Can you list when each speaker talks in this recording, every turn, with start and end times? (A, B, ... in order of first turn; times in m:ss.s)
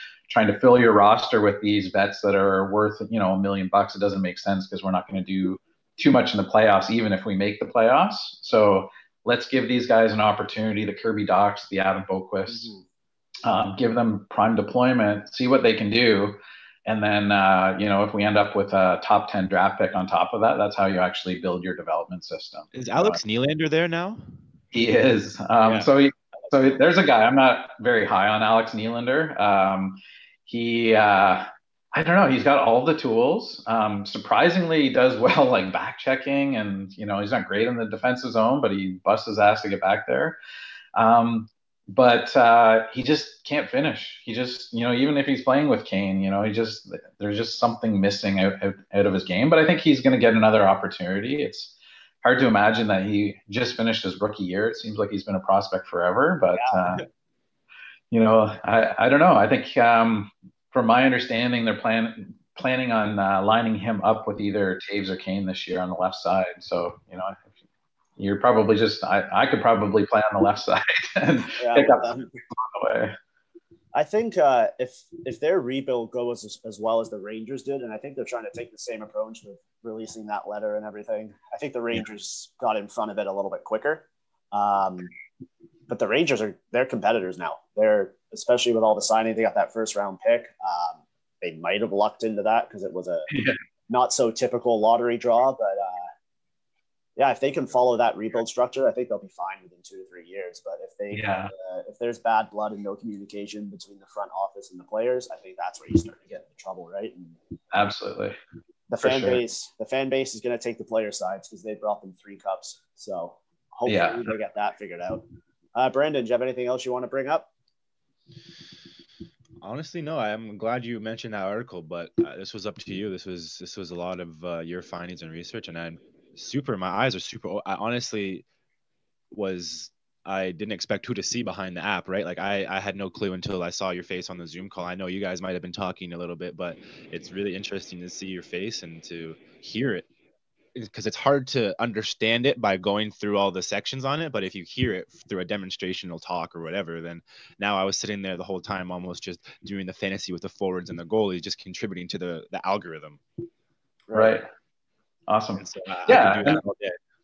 0:00.3-0:12.7 A
0:12.5-0:12.8 B
0:13.4-0:23.2 A
0:22.7-0:24.2 C
0:24.7-0:40.4 A
0:25.6-0:25.9 C
0:41.0-0:57.0 A
0:56.6-0:57.0 B
0:58.1-1:07.4 A
1:08.2-1:13.2 A
1:11.6-1:12.4 B
1:14.0-1:25.1 B
1:25.9-1:33.3 B
1:33.3-1:33.6 A
1:33.9-1:36.1 B
1:37.2-1:47.4 B
1:41.1-1:41.5 A
1:47.7-1:48.4 A
1:48.9-1:55.2 B
1:49.0-1:49.4 A
1:53.9-1:54.2 A
1:55.8-1:57.5 B
1:59.6-2:08.4 C
2:09.3-2:20.1 C
2:20.8-2:33.2 C
2:34.1-2:34.3 B
2:34.1-2:34.5 A
2:35.3-2:36.6 A
2:35.6-2:37.0 C